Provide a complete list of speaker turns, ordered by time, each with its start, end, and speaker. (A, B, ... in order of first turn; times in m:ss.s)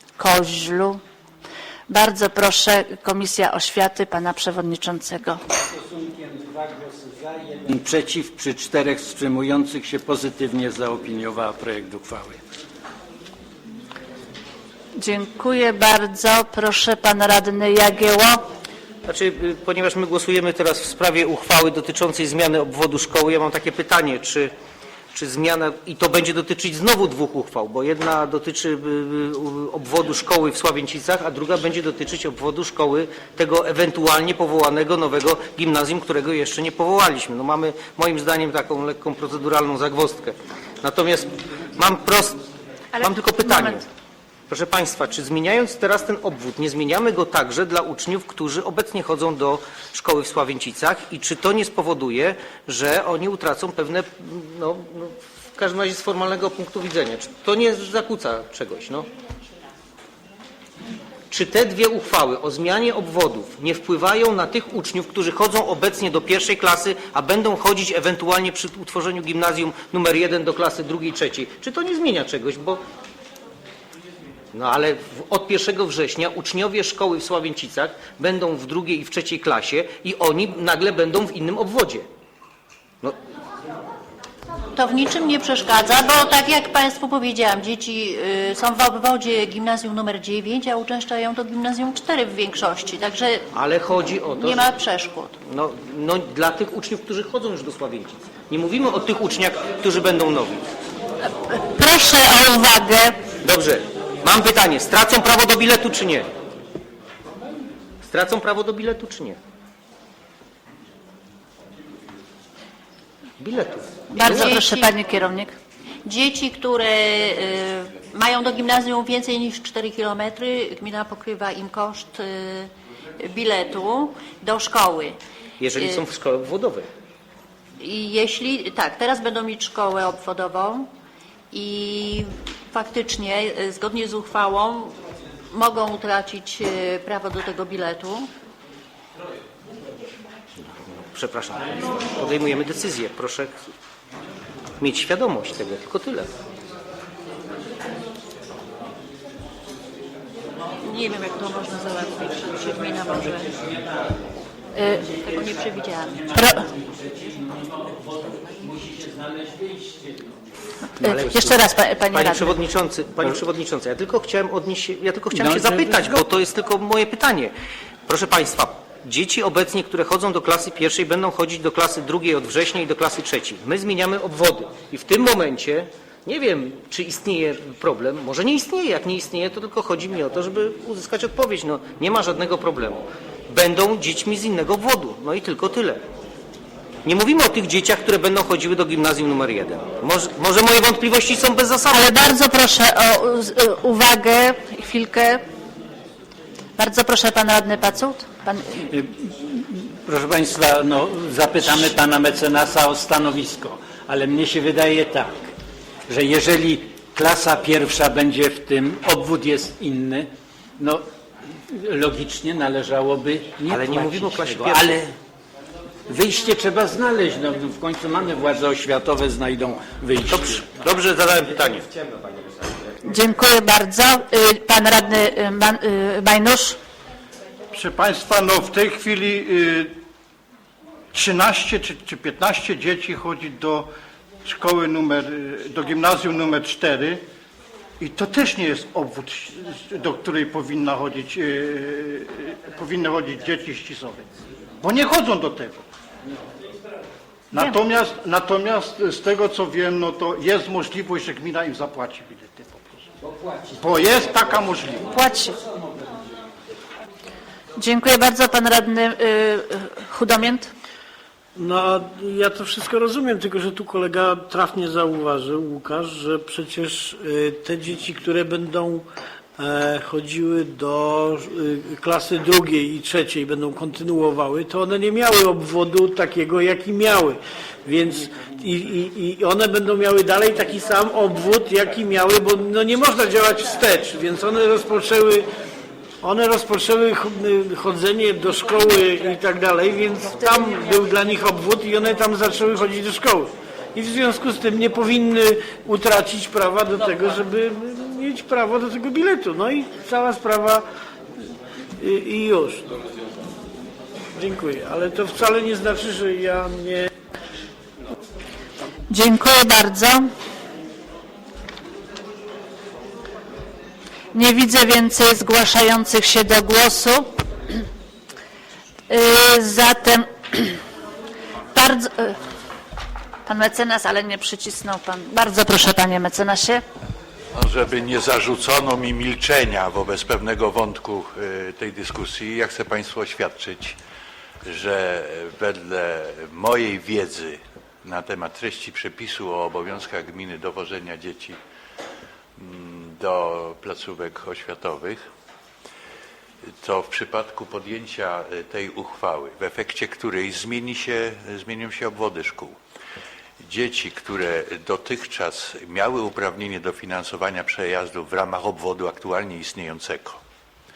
0:00.2-0:01.0 A
0:01.9-0:05.4 A
0:05.7-0:12.4 B
0:15.0-0:18.4 A
0:19.1-0:24.5 C
0:25.1-0:42.4 C
0:43.0-0:43.8 A
0:43.0-0:43.8 C
0:44.5-0:59.1 C
1:01.3-1:12.8 C
1:14.5-1:22.1 C
1:24.8-1:33.5 D
1:33.5-1:34.7 C
1:34.3-1:35.4 D
1:35.4-1:40.7 C
1:41.5-1:43.2 A
1:43.4-1:46.3 C
1:48.0-1:49.4 C
1:53.4-1:54.4 C
1:54.1-1:55.6 A
1:54.2-1:55.0 D
1:56.0-2:05.2 D
2:05.6-2:06.9 C
2:05.8-2:06.0 D
2:07.8-2:10.9 D
2:11.5-2:15.0 D
2:15.5-2:18.3 D
2:21.1-2:23.5 C
2:24.8-2:26.3 C
2:30.8-2:33.6 D
2:34.8-2:35.1 A
2:35.1-2:36.3 D
2:36.3-2:36.6 A
2:36.7-2:40.4 B
2:41.0-2:42.5 A
2:41.0-2:41.5 C
2:42.1-2:47.5 C
2:45.3-2:46.2 B
2:48.1-3:06.0 C
3:07.0-3:12.1 C
3:11.9-3:15.4 A
3:16.8-3:18.8 A
3:18.9-3:25.4 B
3:26.1-3:30.3 B
3:30.8-3:31.0 B
3:31.7-3:35.1 B
3:33.7-3:35.0 C
3:36.1-3:40.6 B
3:40.3-3:41.9 C
3:43.1-3:46.8 A
3:47.7-3:49.9 E
3:51.1-3:53.9 E
3:54.4-3:57.2 E
3:58.0-4:04.3 E
4:04.8-4:05.8 E
4:07.5-4:13.0 E
4:13.7-4:15.1 E
4:15.1-4:15.6 A
4:17.8-4:20.7 A
4:21.6-4:29.1 F
4:29.6-4:45.5 F
4:46.2-5:00.8 F
5:02.0-5:02.9 F
5:04.4-5:07.1 F
5:09.1-5:10.3 A
5:14.3-5:17.8 A
5:19.1-5:20.8 A
5:21.7-5:22.4 A
5:23.5-5:26.8 A
5:27.5-5:34.0 G
5:34.6-5:41.6 G
5:42.6-5:45.2 G
5:46.8-5:52.8 G
5:53.6-6:00.4 G